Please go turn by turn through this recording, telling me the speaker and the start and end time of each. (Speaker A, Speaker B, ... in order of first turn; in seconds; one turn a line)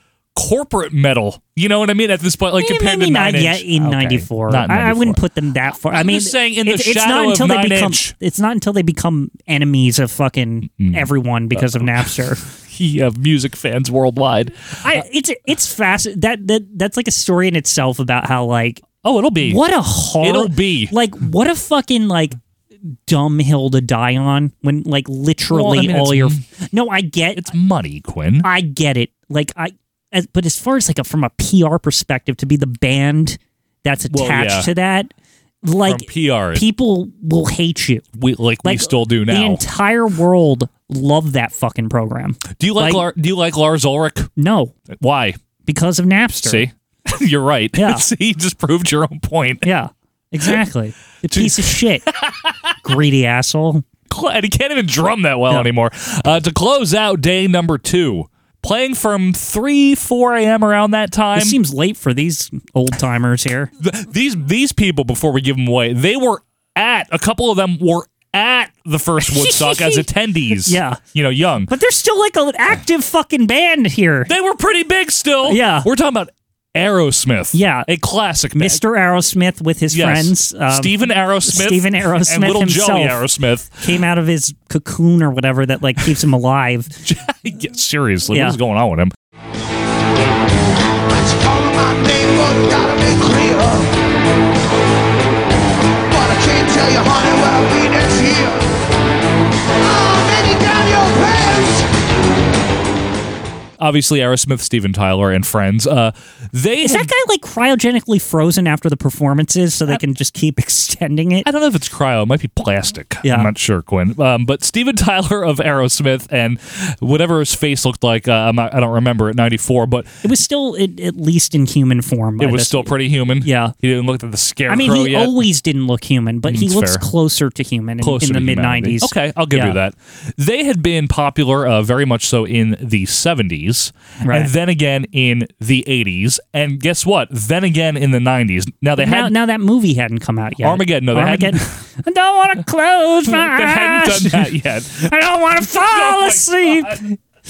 Speaker A: 0.3-5.2
Speaker B: 2.6-12.4
Speaker A: 5.9-8.1
Speaker A: 10.8-15.0
Speaker B: 14.8-18.8
Speaker A: 19.0-19.6
Speaker B: 19.4-22.4
Speaker A: 20.2-20.9
Speaker B: 23.1-27.5
Speaker A: 25.5-26.4
Speaker A: 27.4-28.5
Speaker B: 28.4-35.1
Speaker A: 34.1-34.7
Speaker B: 35.6-38.0
Speaker A: 35.9-36.6
Speaker A: 38.2-39.6
Speaker B: 38.6-43.1
Speaker A: 42.6-44.3
Speaker B: 44.4-44.7
Speaker A: 44.9-45.4
Speaker B: 45.7-46.7
Speaker A: 46.4-49.7
Speaker B: 47.8-48.0
Speaker B: 49.6-52.1
Speaker A: 51.3-52.8
Speaker B: 52.8-53.8
Speaker A: 54.1-61.6
Speaker B: 61.4-63.7
Speaker A: 63.8-71.7
Speaker B: 69.2-71.0
Speaker B: 71.7-74.3
Speaker A: 74.3-78.8
Speaker B: 75.5-75.9
Speaker B: 77.5-77.9
Speaker B: 78.6-83.2
Speaker A: 79.9-84.0
Speaker B: 83.8-86.9
Speaker A: 87.0-89.1
Speaker B: 88.3-88.6
Speaker C: 91.1-93.9
Speaker C: 96.1-98.6
Speaker C: 99.8-101.9
Speaker A: 103.8-107.1
Speaker B: 106.8-111.5
Speaker A: 111.4-120.1
Speaker B: 113.2-113.5
Speaker B: 120.2-123.7
Speaker A: 122.4-125.5
Speaker B: 124.7-129.8
Speaker A: 126.5-127.0
Speaker A: 128.0-139.3
Speaker B: 134.2-134.5
Speaker B: 139.0-147.2
Speaker A: 140.6-141.8
Speaker A: 143.3-147.1